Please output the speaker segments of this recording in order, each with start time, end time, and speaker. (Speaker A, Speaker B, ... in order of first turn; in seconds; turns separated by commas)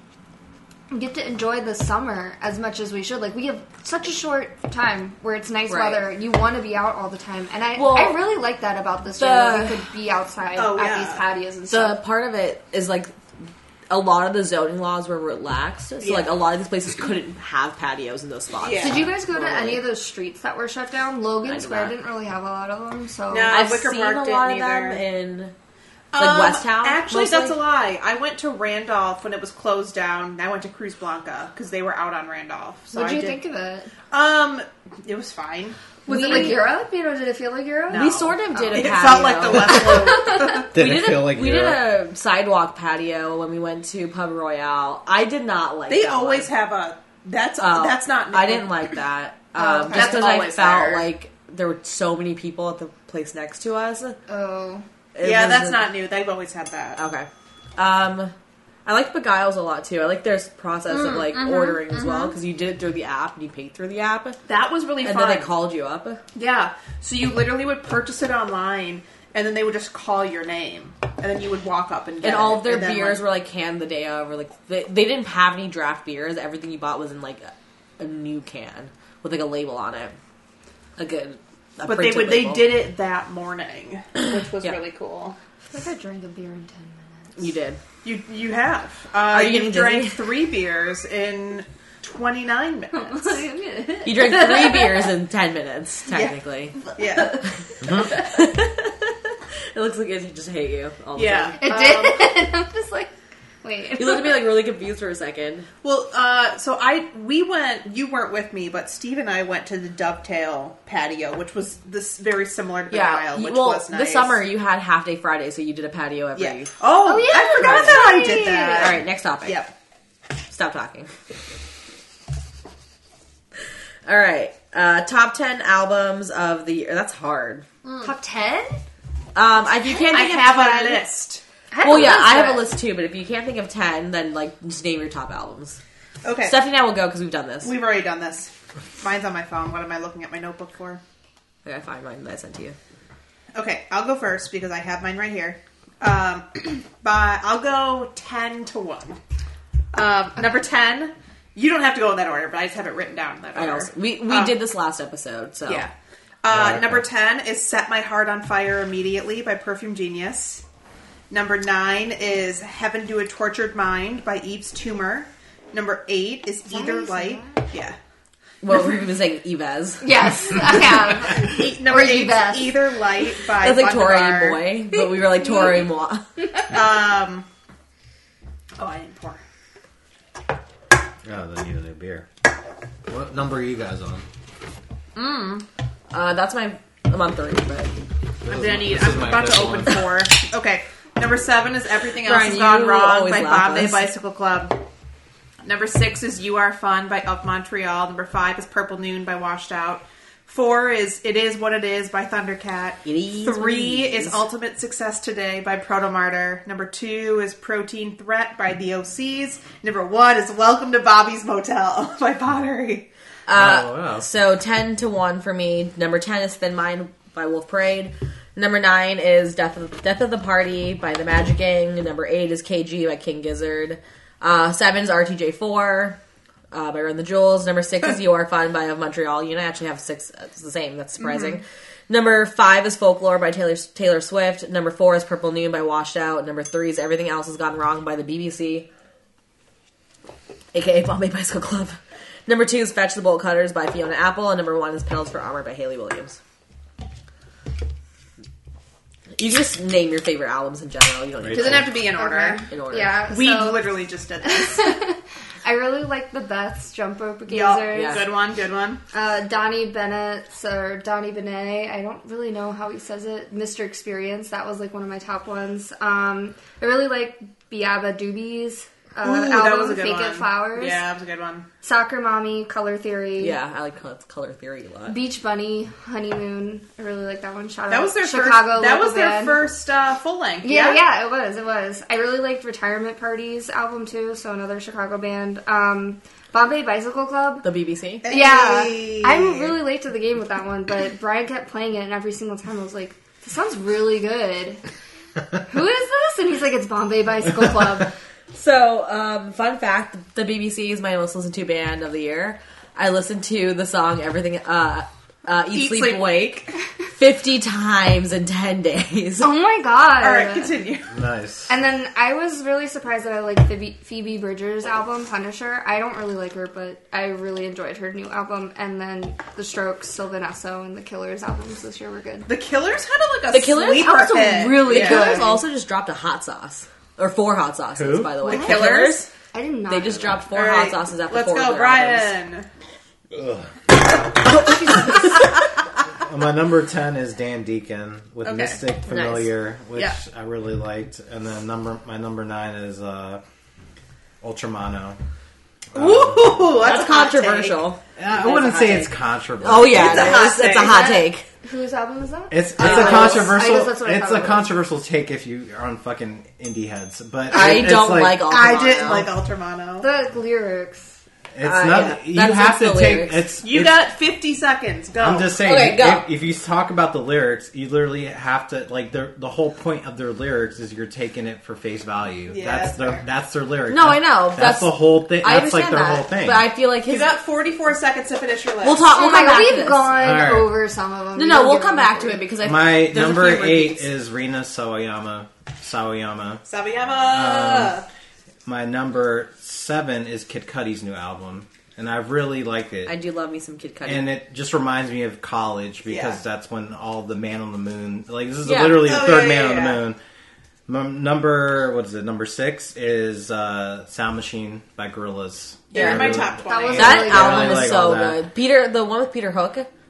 Speaker A: 0.9-12.0, Speaker B: 5.7-6.0, Speaker B: 7.7-8.2, Speaker B: 9.1-9.8, Speaker C: 10.5-11.2, Speaker B: 11.7-13.1, Speaker B: 13.9-19.8, Speaker C: 16.0-16.3, Speaker C: 18.6-19.1, Speaker A: 18.8-23.6, Speaker B: 21.4-21.9, Speaker C: 23.3-25.0, Speaker B: 23.5-25.5, Speaker C: 26.1-33.4, Speaker B: 26.2-27.6, Speaker A: 32.9-33.9, Speaker C: 34.1-36.6, Speaker A: 36.0-38.8, Speaker B: 36.1-36.6, Speaker C: 37.9-40.7, Speaker B: 37.9-46.5, Speaker A: 39.6-40.6, Speaker D: 40.7-41.8, Speaker C: 45.9-48.9, Speaker B: 47.6-54.2, Speaker A: 49.6-50.4, Speaker C: 49.9-51.1, Speaker A: 54.3-54.8, Speaker B: 55.1-55.9, Speaker C: 55.2-57.0, Speaker B: 57.0-58.3, Speaker B: 58.9-64.4, Speaker C: 60.9-62.3, Speaker C: 64.5-65.5, Speaker B: 65.0-66.2, Speaker C: 66.3-73.2, Speaker B: 72.2-80.1, Speaker B: 81.0-82.8, Speaker C: 81.8-85.4, Speaker A: 85.7-87.3, Speaker B: 87.4-87.8, Speaker C: 88.0-93.4, Speaker B: 89.3-90.2, Speaker A: 92.9-95.0, Speaker B: 94.0-101.7, Speaker C: 96.1-97.4, Speaker C: 101.2-102.3, Speaker A: 101.6-103.1, Speaker A: 103.6-104.5, Speaker B: 104.0-105.7, Speaker C: 105.8-114.4, Speaker B: 112.9-116.7, Speaker C: 116.3-119.7, Speaker A: 117.0-118.9, Speaker B: 118.7-119.7, Speaker B: 120.5-121.1, Speaker B: 124.0-127.6, Speaker C: 127.8-128.1, Speaker A: 128.0-128.8, Speaker B: 129.3-131.0, Speaker C: 129.9-131.4, Speaker A: 131.7-132.6, Speaker B: 131.8-135.8, Speaker C: 136.2-136.6, Speaker B: 136.4-137.7, Speaker C: 137.6-141.0, Speaker B: 141.6-142.8, Speaker C: 143.5-149.2, Speaker C: 149.9-154.6, Speaker B: 153.5-155.9, Speaker C: 155.7-155.9, Speaker C: 156.4-160.6, Speaker D: 156.5-157.0, Speaker C: 161.3-167.9, Speaker A: 166.7-167.6, Speaker B: 168.6-170.1, Speaker A: 170.0-172.8, Speaker C: 171.3-174.7, Speaker B: 173.6-176.2, Speaker C: 176.7-177.4, Speaker C: 178.8-179.4, Speaker D: 181.2-182.3, Speaker D: 183.1-184.2, Speaker C: 185.1-185.6, Speaker B: 186.1-187.9, Speaker D: 188.4-190.1, Speaker C: 188.5-194.8, Speaker B: 192.2-194.1, Speaker C: 195.6-213.1, Speaker B: 203.0-204.4, Speaker B: 213.5-226.2, Speaker D: 213.5-214.2, Speaker B: 226.7-238.9, Speaker C: 231.2-231.6, Speaker B: 240.7-246.4, Speaker B: 249.4-252.0, Speaker D: 251.4-251.9, Speaker C: 251.5-252.6, Speaker A: 252.1-258.3, Speaker B: 252.7-253.2, Speaker C: 253.3-255.0, Speaker C: 257.5-259.0, Speaker B: 257.9-258.3, Speaker A: 259.1-271.0, Speaker C: 269.2-271.7, Speaker A: 271.8-273.6, Speaker B: 273.4-275.2, Speaker A: 275.1-279.7, Speaker C: 277.9-281.0, Speaker A: 280.6-287.6, Speaker B: 287.6-288.3, Speaker C: 288.2-289.8, Speaker A: 288.3-294.8, Speaker A: 295.6-298.1, Speaker B: 298.5-309.5, Speaker C: 305.7-306.4, Speaker A: 309.4-310.7, Speaker C: 310.2-311.1, Speaker D: 311.1-311.7, Speaker A: 311.7-322.5, Speaker C: 322.4-325.6, Speaker B: 323.5-329.3, Speaker A: 324.9-325.6, Speaker D: 327.9-328.3, Speaker C: 328.4-329.3, Speaker A: 328.5-328.9, Speaker A: 329.5-330.4, Speaker B: 329.9-332.3, Speaker C: 330.5-332.7, Speaker D: 333.3-334.6, Speaker A: 334.6-335.3, Speaker D: 336.2-343.4, Speaker C: 338.4-338.8, Speaker B: 339.1-339.5, Speaker D: 344.4-345.2, Speaker D: 345.9-346.6, Speaker C: 345.9-347.8, Speaker B: 346.8-351.4, Speaker D: 348.2-350.5, Speaker C: 349.8-351.2, Speaker A: 350.7-354.7, Speaker D: 352.5-358.4, Speaker B: 352.8-353.5, Speaker C: 352.8-353.3, Speaker B: 357.5-359.3, Speaker C: 357.6-360.1, Speaker A: 360.0-361.2, Speaker D: 361.5-364.0, Speaker B: 361.6-363.5, Speaker C: 363.6-365.5, Speaker D: 365.2-376.7, Speaker B: 365.6-366.3, Speaker C: 372.5-373.2, Speaker B: 373.9-377.3, Speaker C: 377.1-379.1, Speaker B: 378.8-380.1, Speaker A: 379.1-382.4, Speaker D: 380.1-380.7, Speaker B: 381.3-384.1, Speaker D: 382.6-388.0, Speaker C: 386.6-388.1, Speaker D: 388.6-393.1, Speaker B: 393.1-394.3, Speaker D: 394.1-400.2, Speaker C: 396.1-396.4, Speaker B: 398.6-399.1, Speaker C: 399.0-400.0, Speaker D: 400.9-408.4, Speaker C: 405.9-407.3, Speaker B: 405.9-406.4, Speaker A: 406.6-408.0, Speaker B: 406.9-409.9